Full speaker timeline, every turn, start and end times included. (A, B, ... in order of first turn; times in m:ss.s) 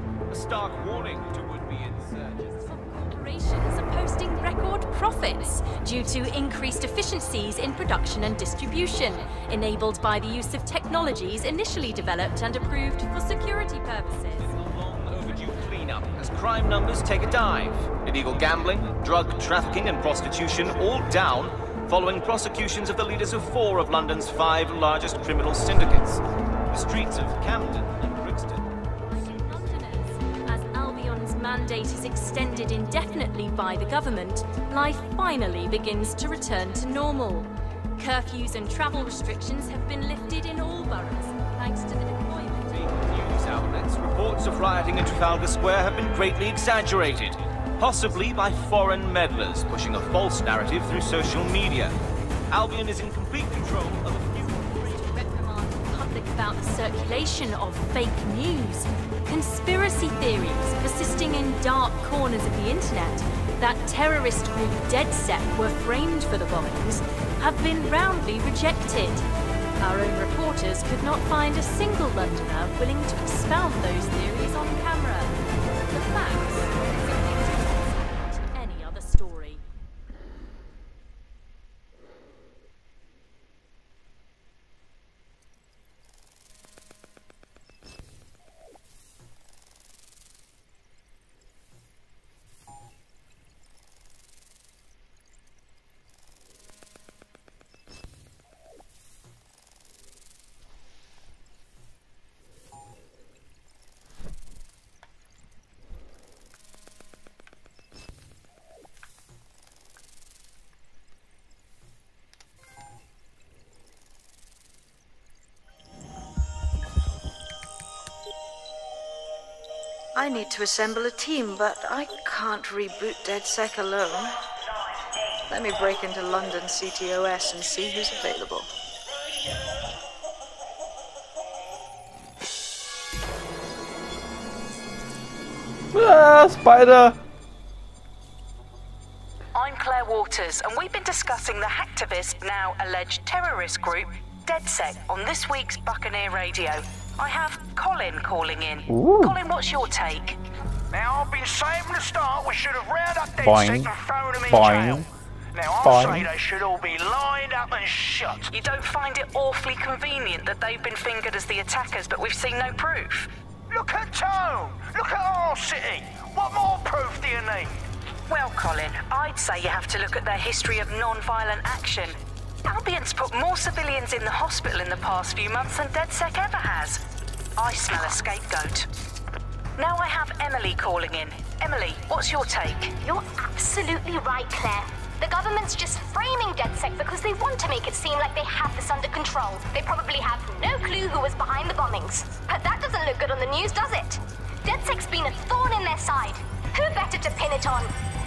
0:00.3-0:02.5 A
0:02.6-0:14.4 B
0:14.5-0:28.6 A
0:29.1-0:42.7 B
0:42.7-0:51.9 A
0:52.5-0:54.7 A
0:54.9-1:09.3 B
1:09.8-1:17.5 B
1:18.3-1:19.6 B
2:00.1-2:04.4 C
2:05.5-2:08.7 C
2:15.9-2:17.2 D
2:19.5-2:30.4 E
2:28.9-2:29.4 D
2:30.9-2:38.5 F
2:33.4-2:33.9 D
2:34.5-2:35.1 D
2:35.8-2:36.3 D
2:38.5-2:43.3 E
2:43.7-2:47.8 F
2:48.3-2:57.0 E
2:57.6-2:58.9 E
2:59.8-3:02.9 E
3:03.0-3:17.9 G